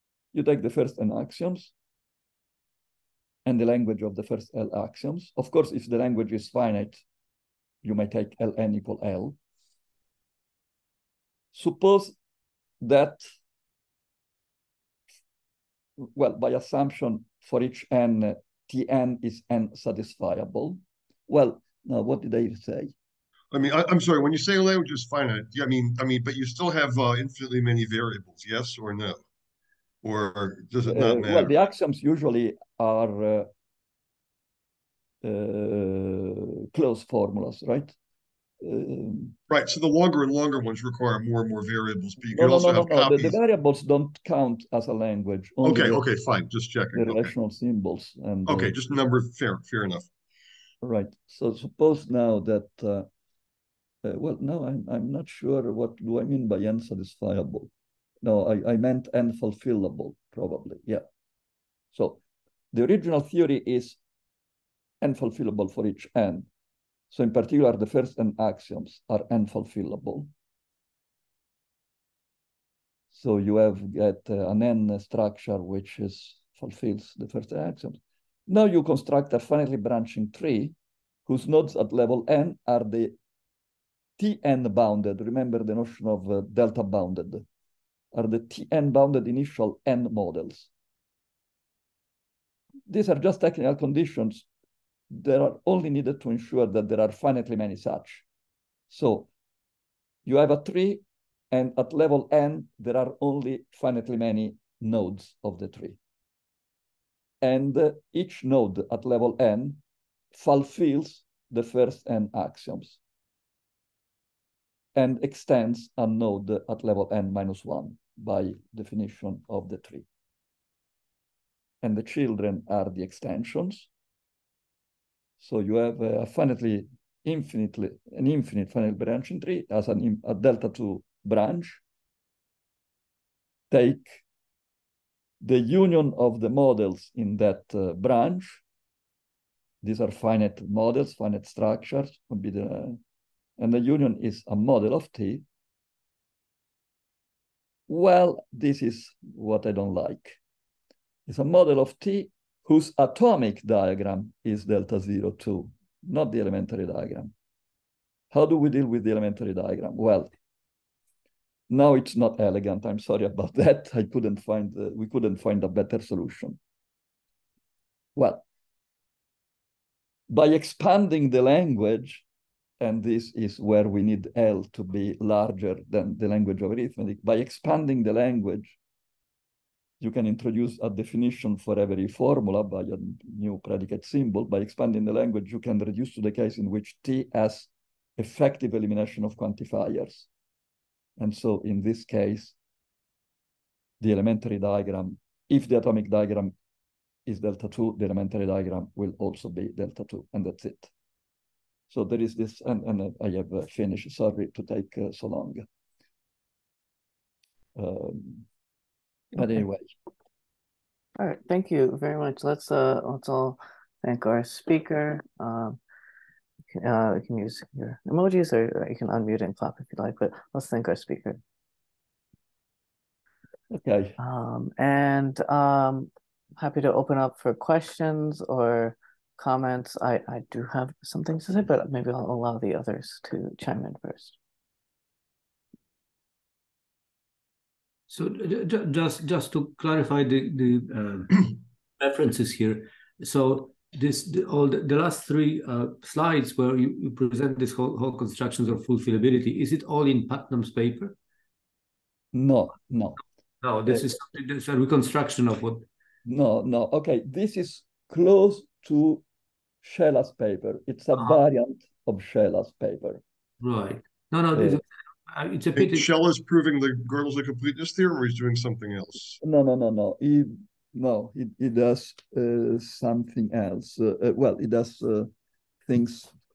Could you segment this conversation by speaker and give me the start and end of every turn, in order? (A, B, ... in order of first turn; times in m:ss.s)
0:00.3-0:01.7 A
0:03.4-0:07.0 A
0:07.8-0:09.4 A
0:11.5-0:12.2 A
0:12.8-0:13.3 A
0:16.0-0:22.9 A
0:23.5-0:29.2 B
0:30.0-0:31.6 B
0:30.9-0:33.5 A
0:35.2-0:38.0 A
0:38.6-0:39.4 A
0:39.5-0:43.4 B
0:42.3-0:46.0 A
0:45.6-0:47.3 B
0:46.9-0:48.7 A
0:48.5-0:50.1 B
0:50.8-0:53.1 A
0:54.0-0:57.7 A
0:58.2-1:01.0 A
1:01.9-1:02.2 A
1:02.7-1:04.0 A
1:05.0-1:06.5 A
1:07.1-1:10.3 A
1:13.1-1:23.2 A
1:24.2-1:27.5 A
1:28.1-1:30.7 A
1:32.9-1:34.5 A
1:35.1-1:38.3 A
1:38.9-1:39.3 A
1:40.2-1:46.0 A
1:47.4-1:49.8 A
1:50.3-1:53.0 A
1:55.0-2:00.1 A
2:01.8-2:03.9 A
2:05.4-2:11.8 A
2:13.7-2:14.2 A
2:15.4-2:18.6 A
2:19.8-2:23.0 A
2:23.6-2:25.4 A
2:27.9-2:30.4 A
2:31.3-2:37.3 A
2:38.3-2:40.3 A
2:41.7-2:46.6 A
2:48.2-2:48.4 A
2:50.3-2:52.2 A
2:52.8-2:58.8 A
3:00.0-3:10.3 A
3:11.2-3:12.6 A
3:14.0-3:16.5 A
3:17.3-3:20.9 A
3:21.9-3:25.7 A
3:27.8-3:28.5 A
3:29.4-3:29.9 A
3:31.2-3:35.8 C
3:36.7-3:41.4 C
3:43.7-3:44.2 A
3:44.2-3:54.4 C
3:58.1-4:11.2 D
4:12.3-4:13.2 A
4:13.6-4:15.9 D
4:16.3-4:19.2 A
4:19.8-4:23.2 A
4:21.2-4:21.4 D
4:23.6-4:26.1 D
4:24.5-4:24.8 A
4:25.8-4:29.4 B
4:29.4-4:35.3 A
4:35.9-4:36.3 A